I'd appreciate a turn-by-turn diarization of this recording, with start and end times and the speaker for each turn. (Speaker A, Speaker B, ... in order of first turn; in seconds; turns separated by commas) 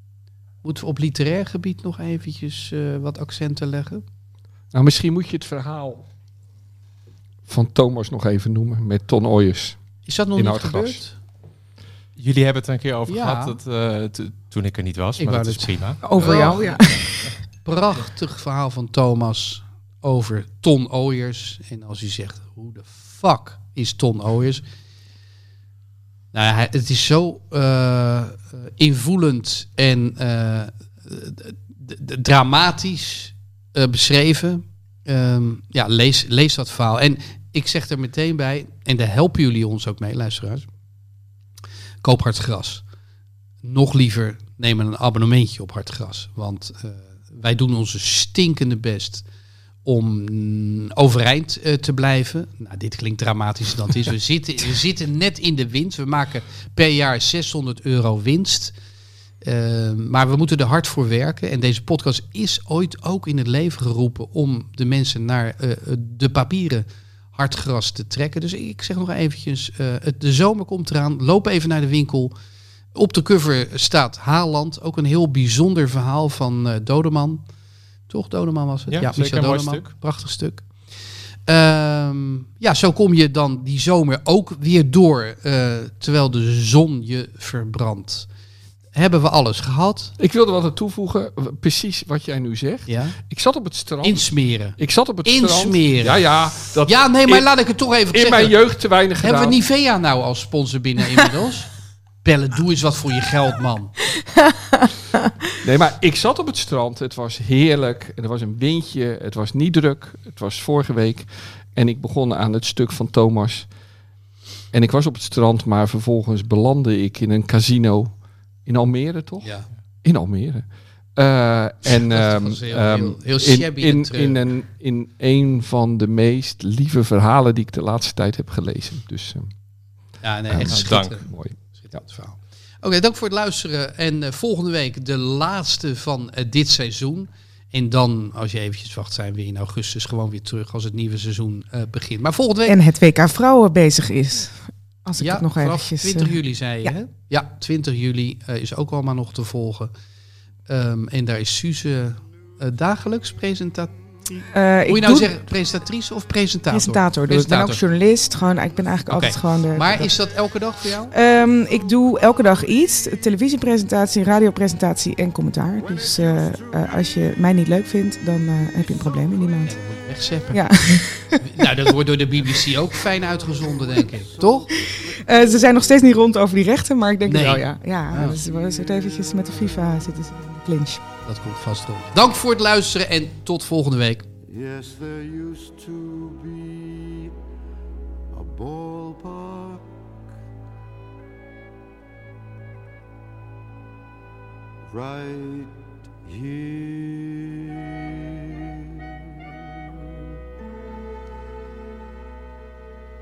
Speaker A: 0.6-4.0, Speaker B: 4.7-6.0, Speaker B: 7.5-9.8, Speaker A: 10.0-11.2, Speaker B: 10.3-11.0, Speaker C: 12.2-17.1, Speaker A: 13.1-13.6, Speaker A: 15.2-17.0, Speaker D: 16.0-17.3, Speaker A: 17.6-24.6, Speaker A: 26.3-40.7, Speaker A: 42.0-42.8, Speaker A: 43.6-49.2, Speaker A: 49.8-58.7, Speaker A: 59.4-72.3, Speaker A: 72.9-77.5, Speaker A: 78.1-80.9, Speaker C: 78.9-79.9, Speaker A: 81.5-88.3, Speaker A: 88.9-90.2, Speaker B: 90.2-97.5, Speaker A: 92.9-93.2, Speaker A: 94.0-98.6, Speaker B: 98.1-99.6, Speaker A: 99.2-101.7, Speaker A: 102.2-103.9, Speaker D: 104.5-105.3, Speaker B: 105.6-113.7, Speaker B: 114.7-129.5, Speaker A: 119.4-119.7, Speaker A: 121.9-124.4, Speaker A: 130.2-142.8, Speaker B: 130.5-132.0, Speaker C: 130.6-131.2, Speaker D: 142.7-146.9, Speaker A: 145.2-149.9, Speaker A: 150.7-157.8, Speaker D: 154.5-155.3, Speaker D: 156.7-160.2, Speaker A: 159.1-161.1, Speaker D: 161.1-169.8, Speaker E: 165.8-167.2, Speaker E: 169.0-169.6, Speaker A: 169.6-170.7, Speaker D: 170.5-171.4, Speaker A: 171.4-174.7, Speaker E: 172.9-175.9, Speaker D: 175.1-181.0, Speaker A: 177.2-178.4, Speaker A: 181.2-184.3, Speaker E: 184.5-187.3, Speaker E: 188.3-189.9, Speaker E: 194.9-197.9